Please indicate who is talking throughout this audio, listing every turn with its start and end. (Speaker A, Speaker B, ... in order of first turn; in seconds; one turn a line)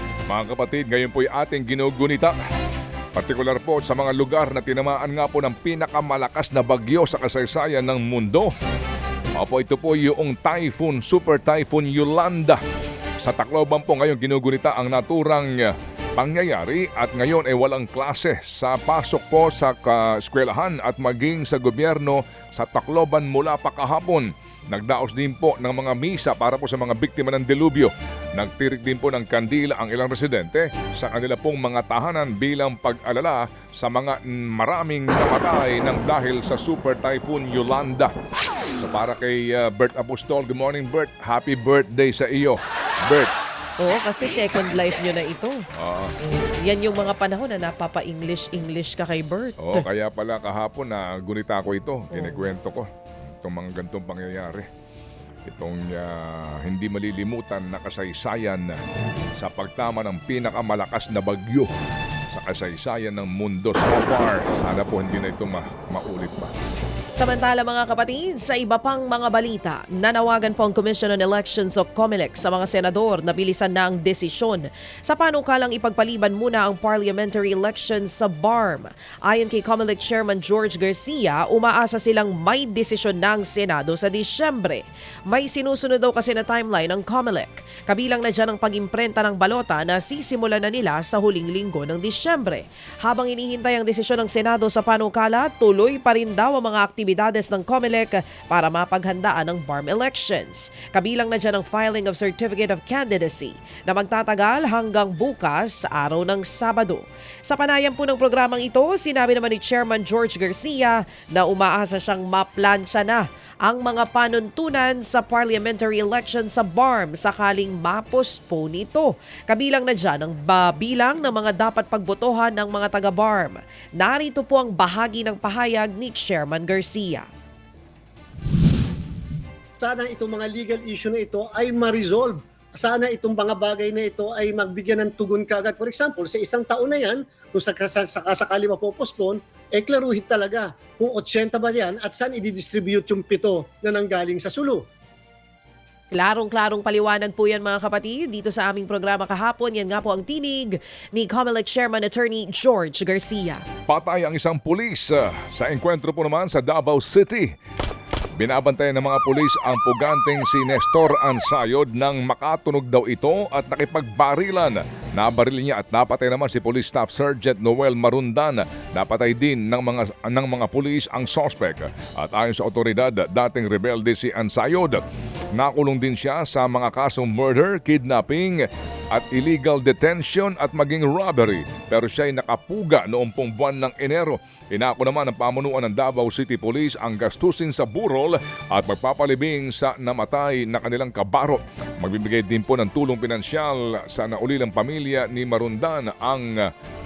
Speaker A: 0.3-2.3
Speaker A: 3.1-8.5
Speaker A: 9.3-12.6
Speaker A: 13.2-38.1
Speaker A: 38.8-43.3
Speaker B: 43.8-45.6
Speaker A: 45.7-46.1
Speaker B: 46.6-49.9
Speaker A: 49.6-52.9
Speaker A: 53.4-54.7
Speaker A: 55.5-58.8
Speaker A: 59.4-61.7
Speaker A: 62.3-66.5
Speaker B: 67.1-127.3
Speaker C: 129.8-144.8
Speaker B: 146.1-153.6
Speaker A: 153.9-157.5
Speaker A: 158.4-175.0
Speaker A: 175.6-196.7